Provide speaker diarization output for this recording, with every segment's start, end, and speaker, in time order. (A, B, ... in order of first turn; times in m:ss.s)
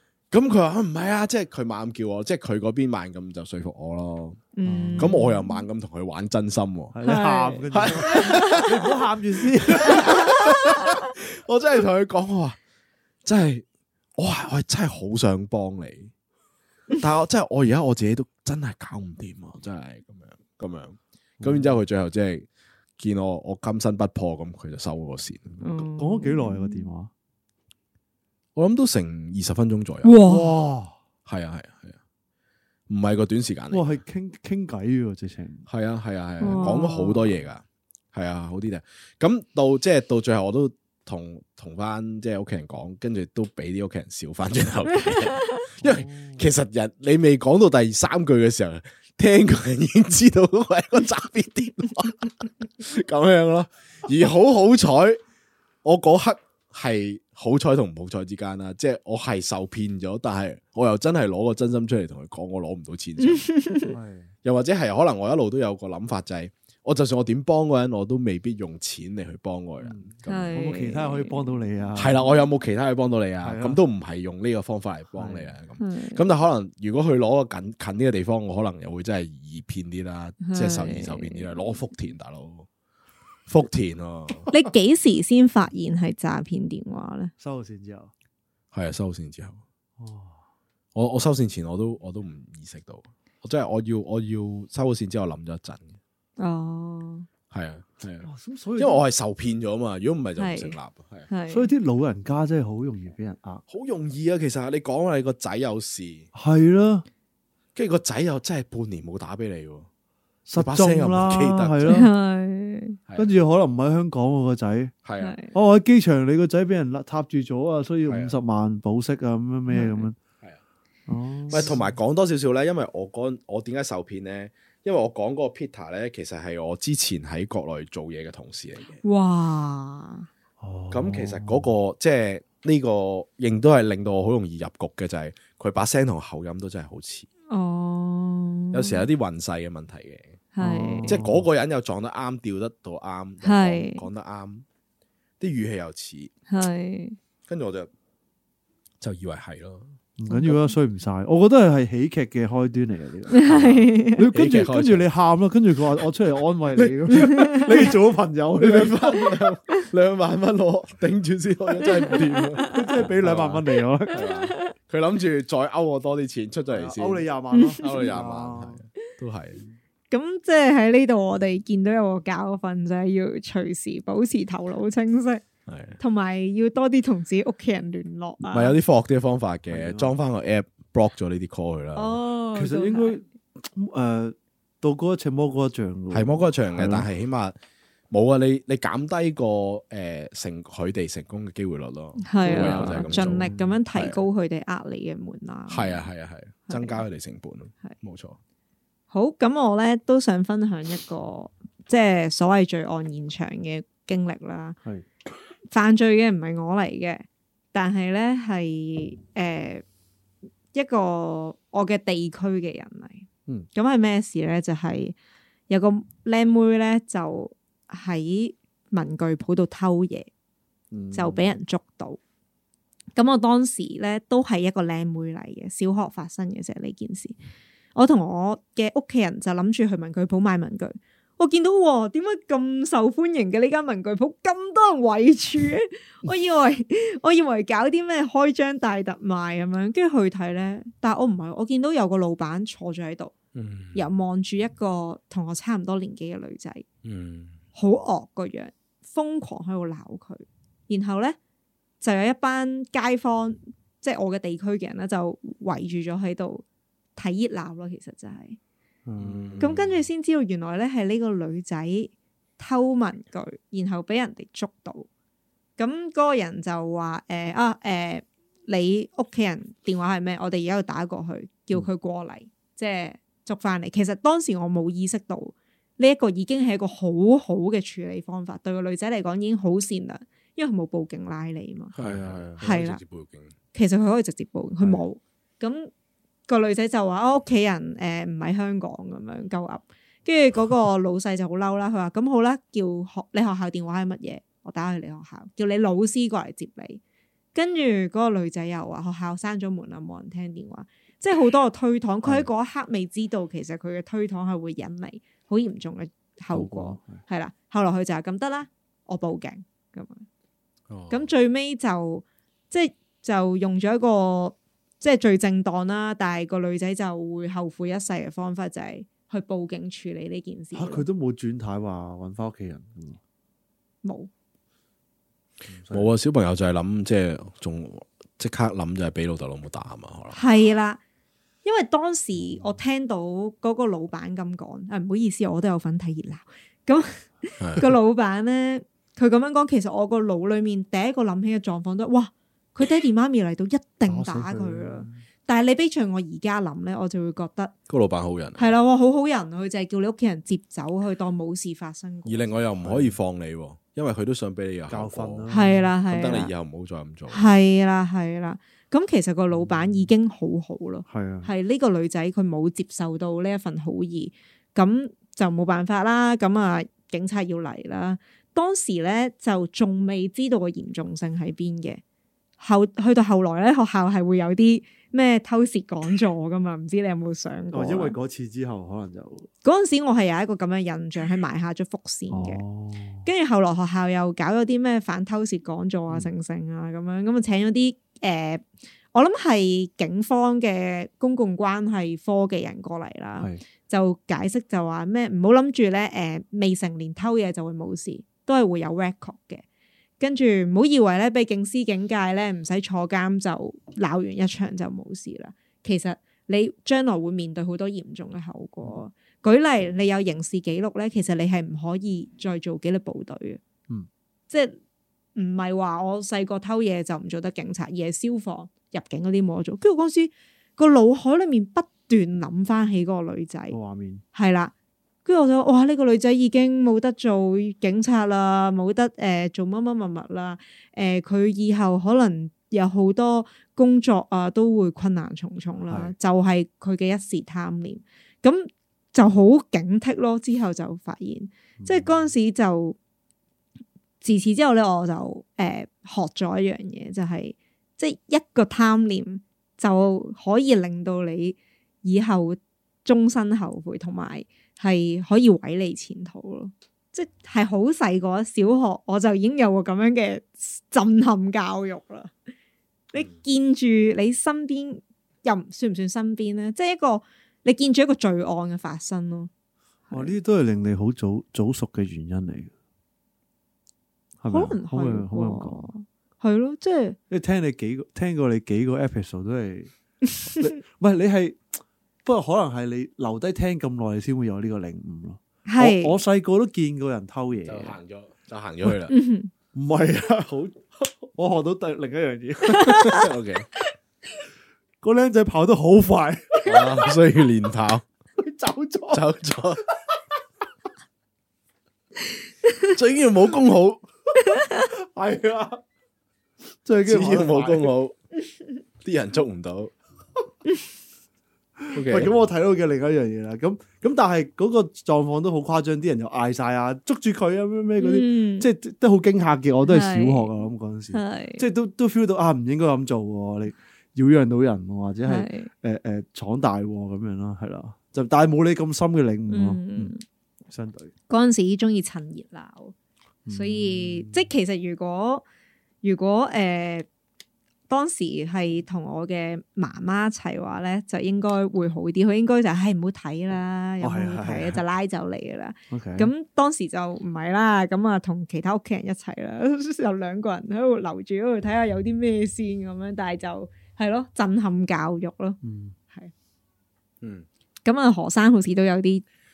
0:00.3-0:06.9 A
0:04.6-0:05.6 B
0:04.6-0:05.2 C
0:06.9-0:10.1 C
0:07.0-0:08.7 B
0:07.7-0:08.9 A
0:09.7-0:12.6 A
0:09.8-0:11.1 B
0:13.2-0:13.6 A
0:14.2-0:16.1 A
0:17.0-0:22.5 A
0:21.4-0:21.8 C
0:23.0-0:25.6 A
0:25.6-0:26.9 B
0:25.8-0:27.1 C
0:28.6-0:30.2 A
0:30.0-0:30.6 B
0:30.2-0:30.9 C
0:31.2-0:32.0 A
0:32.9-0:34.0 A
0:33.7-0:35.7 C
0:35.7-0:55.2 A
0:36.4-0:37.1 B
0:36.5-0:37.4 C
0:45.1-0:45.6 B
0:45.8-0:46.4 C
0:55.8-1:03.4 A
1:03.2-1:03.9 B
1:03.9-1:04.3 C
1:04.4-1:10.6 A
1:09.8-1:12.2 C
1:10.3-1:11.6 B
1:12.0-1:22.7 A
1:13.4-1:13.8 C
1:15.2-1:15.5 C
1:15.8-1:16.2 B
1:20.4-1:21.8 B
1:23.5-1:24.5 A
1:24.5-1:27.3 B
1:27.4-1:28.1 C
1:28.7-1:29.6 A
1:30.0-1:30.4 C
1:30.9-1:36.0 A
1:36.4-1:37.3 B
1:37.5-1:41.3 A
1:38.2-1:39.0 C
1:40.4-1:40.8 B
1:41.3-1:41.7 B
1:41.5-1:43.6 C
1:43.7-1:46.3 A
1:46.3-1:47.0 C
1:47.7-1:49.9 A
1:50.4-1:52.1 C
1:50.6-1:52.0 A
1:51.9-1:53.0 B
1:53.2-1:54.9 C
1:55.0-1:55.4 A
1:55.2-1:55.5 B
1:55.5-2:00.2 C
1:58.0-1:58.3 A
1:59.7-2:00.1 B
2:01.1-2:01.8 C
2:01.5-2:09.0 A
2:09.0-2:10.3 B
2:10.6-2:11.7 C
2:10.9-2:17.3 A
2:17.5-2:19.0 B
2:18.7-2:20.4 A
2:20.5-2:21.2 B
2:20.6-2:21.4 C
2:21.1-2:24.6 A
2:23.4-2:24.0 B
2:25.4-2:26.3 A
2:26.5-2:27.2 B
2:27.5-2:27.9 A
2:29.0-2:30.0 A
2:30.2-2:33.5 C
2:30.3-2:30.6 B
2:33.3-2:34.3 B
2:33.4-2:35.1 A
2:34.1-2:39.1 C
2:36.7-2:37.1 A
2:37.3-2:37.9 B
2:38.6-2:47.2 A
2:42.0-2:42.8 B
2:42.7-2:44.2 C
2:44.1-2:44.7 B
2:46.7-2:48.8 C
2:47.5-2:48.0 B
2:47.8-2:49.6 A
2:50.1-2:55.4 B
2:55.7-2:56.0 A
2:56.0-2:58.8 B
2:58.5-3:02.2 A
2:59.7-3:00.1 C
3:01.9-3:03.2 B
3:02.5-3:07.1 C
3:06.1-3:07.5 A
3:08.1-3:14.2 A
3:12.2-3:16.0 B
3:12.4-3:13.7 C
3:15.7-3:18.4 A
3:16.7-3:17.0 B
3:19.1-3:24.8 B
3:25.7-3:29.8 B
3:30.7-3:35.1 B
3:35.7-3:40.3 B
3:40.9-3:41.5 C
3:41.1-3:42.2 B
3:43.2-3:47.4 B
3:47.9-4:03.3 B
4:03.5-4:04.0 A
4:03.9-4:06.8 B
4:07.0-4:07.6 A
4:07.7-4:11.4 B
4:12.0-4:16.6 B
4:17.2-4:18.6 B
4:19.0-4:19.8 C
4:19.2-4:20.0 A
4:19.6-4:25.1 B
4:25.8-4:41.9 B
4:41.9-4:43.5 A
4:42.0-4:42.6 C
4:42.6-4:43.0 B
4:43.7-4:45.9 B
4:46.5-4:57.0 B
4:57.5-5:10.2 B
5:06.5-5:07.2 C
5:10.9-5:11.3 A
5:11.1-5:21.0 B
5:20.7-5:23.2 C
5:24.0-5:24.3 B
5:25.7-5:26.1 C
5:25.9-5:30.4 A
5:30.3-5:31.0 B
5:31.6-5:47.7 B
5:37.6-5:37.8 A
5:44.1-5:45.2 C
5:47.9-5:48.7 A
5:48.6-5:52.6 B
5:52.2-5:55.5 A
5:52.8-5:53.2 C
5:54.9-5:55.9 C
5:55.5-5:56.5 B
5:56.1-5:57.5 A
5:57.3-6:12.0 B
5:59.6-6:00.0 C
6:01.1-6:01.5 C
6:12.6-6:18.2 B
6:17.7-6:19.5 C
6:19.6-6:22.6 B
6:22.3-6:23.3 C
6:23.2-6:39.6 B
6:40.2-6:53.6 B
6:54.5-6:54.8 B
6:55.4-7:03.8 B
7:03.7-7:04.2 C
7:04.3-7:04.7 B
7:05.2-7:23.0 B
7:15.9-7:16.1 C
7:21.8-7:22.3 C
7:24.2-7:42.3 B
7:43.1-7:49.5 B
7:50.1-7:50.4 B
7:50.1-7:52.7 C
7:54.4-7:55.8 C
7:54.5-7:57.2 B
7:57.3-7:59.9 C
8:00.4-8:08.0 C
8:05.7-8:06.2 B
8:07.6-8:09.1 A
8:09.1-8:09.5 B
8:09.7-8:13.2 C
8:12.7-8:13.2 B
8:13.0-8:13.7 A
8:15.0-8:17.1 C
8:16.6-8:18.0 A
8:18.4-8:19.2 C
8:19.1-8:19.8 A
8:22.8-8:24.0 A
8:24.5-8:24.8 B
8:24.7-8:25.8 C
8:26.8-8:27.9 C
8:27.0-8:28.1 A
8:29.0-8:29.9 A
8:31.8-8:50.1 C
8:31.9-8:32.3 A
8:38.0-8:38.7 B
8:39.8-8:40.5 B
8:41.1-8:41.6 B
8:45.2-8:45.7 B
8:49.5-8:50.2 B
8:50.7-8:51.1 C
8:51.3-8:52.9 B
8:53.4-8:54.5 C
8:53.5-8:55.4 B
8:56.0-8:57.1 B
8:57.9-9:15.6 B
9:04.0-9:04.8 C
9:05.9-9:06.3 C
9:15.6-9:15.9 C
9:17.2-9:17.5 A
9:17.8-9:19.2 B